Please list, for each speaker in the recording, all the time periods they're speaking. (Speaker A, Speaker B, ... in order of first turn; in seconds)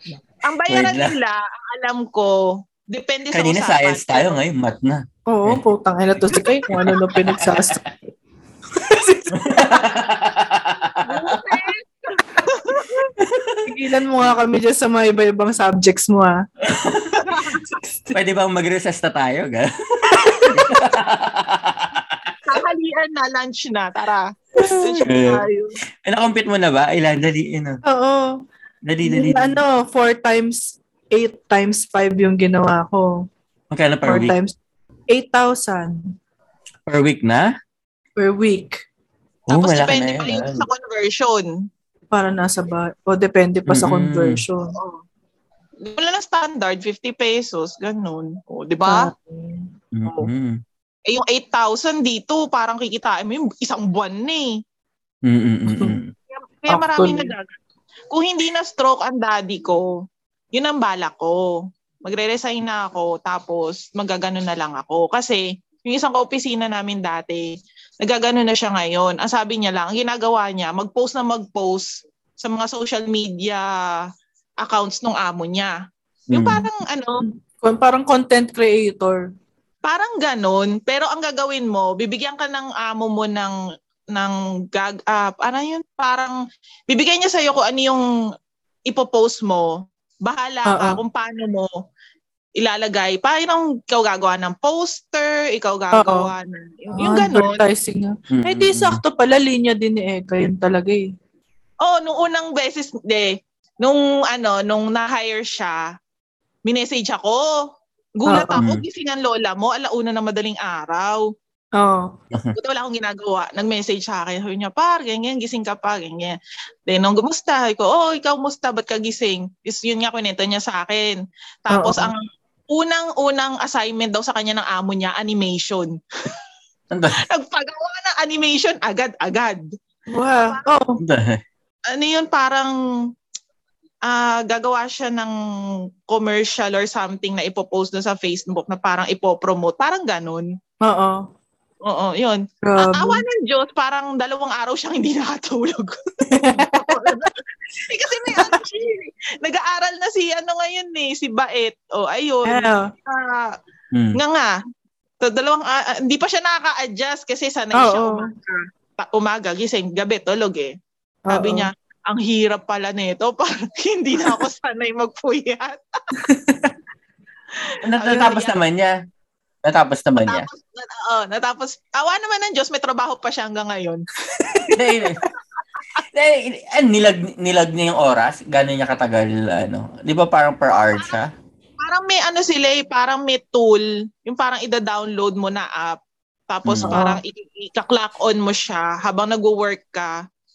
Speaker A: 0.4-4.4, 11.1-13.1, 17.1-17.8, 22.5-25.7, 39.5-41.5, 44.8-45.0, 45.8-49.1, 51.1-54.5, 56.3-57.5, 58.1-59.9, 60.5-61.5, 62.0-71.9, 72.4-73.7, 74.6-75.7, 76.3-77.2, 79.9-83.6, 84.1-86.4, 86.9-88.1, 88.9-91.7, 92.6-97.6, 101.8-105.8, 106.7-107.5, 108.2-111.2, 112.6-116.4, 116.9-126.0, 127.3-129.6, 131.9-132.8, 134.1-135.3, 136.1-140.5, 141.9-153.5, 154.2-154.5, 155.2-160.7, 161.3-165.8, 168.0-168.5, 170.3-174.0, 175.3-175.8, 181.8-186.0, 186.5-190.1
Speaker B: 0.7-1.1, 3.3-5.6, 6.3-7.6, 9.3-11.4, 13.2-14.3, 16.6-17.4, 18.1-22.4, 25.1-25.4, 26.0-27.8, 28.9-29.6, 33.7-34.4, 36.9-37.5, 39.5-40.7, 43.7-44.4, 49.9-50.6, 55.3-56.1, 76.3-76.7, 98.3-99.0, 108.6-108.8, 126.9-127.2, 131.0-131.4, 153.9-154.2, 167.9-168.9, 169.7-170.5, 174.8-175.2, 176.1-181.3, 186.7-187.0
Speaker C: 5.3-7.9, 8.7-9.8, 13.7-16.4, 17.6-18.1, 20.2-20.7, 24.6-25.0, 27.9-28.4, 29.0-33.3, 34.0-34.5, 35.1-36.1, 38.2-38.8, 42.1-44.8, 48.9-50.3, 56.7-57.3, 77.2-79.3, 90.7-91.0, 96.0-96.3, 96.9-101.1, 108.3-108.6, 111.8-112.1, 121.7-122.1, 130.1-131.0, 140.8-141.2, 142.6-143.2, 146.3-147.2, 148.3-148.6, 152.5-152.9, 157.7-158.3, 161.3-161.7, 166.2-166.7, 174.4-174.8, 186.9-187.2